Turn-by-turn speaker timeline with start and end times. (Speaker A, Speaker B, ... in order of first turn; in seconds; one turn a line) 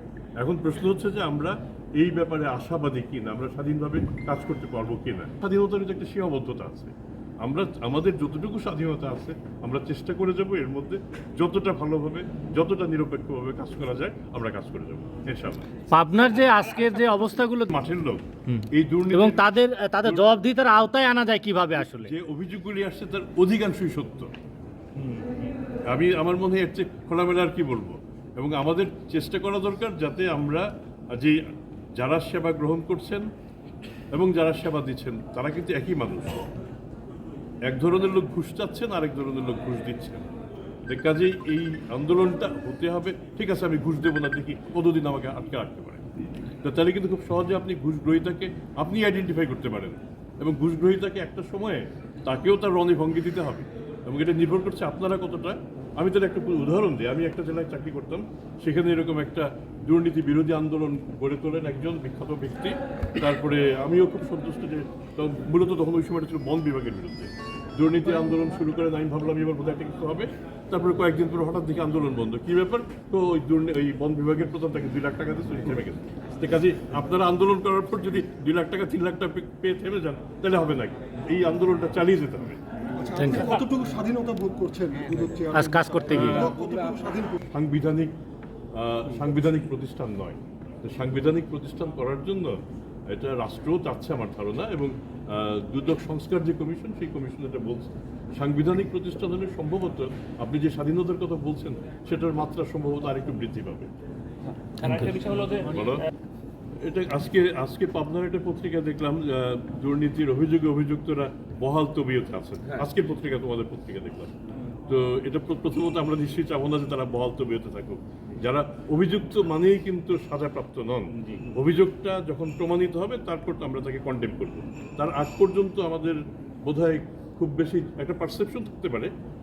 Speaker A: 0.4-15.7
Speaker B: 15.9-17.8
Speaker A: 17.7-20.3
Speaker B: 18.5-22.1
Speaker A: 22.0-24.3
Speaker A: 25.9-31.4
Speaker A: 32.0-33.2
Speaker A: 34.1-36.4
Speaker A: 37.7-40.2
Speaker A: 40.9-46.0
Speaker A: 46.6-82.6
Speaker C: 83.0-87.3
Speaker B: 83.2-83.6
Speaker B: 85.5-86.4
Speaker A: 86.1-86.5
Speaker A: 87.5-88.1
Speaker A: 88.8-92.6
Speaker A: 93.1-103.9
Speaker B: 104.8-105.3
Speaker A: 105.0-106.0
Speaker A: 106.8-114.3
Speaker A: 114.9-129.1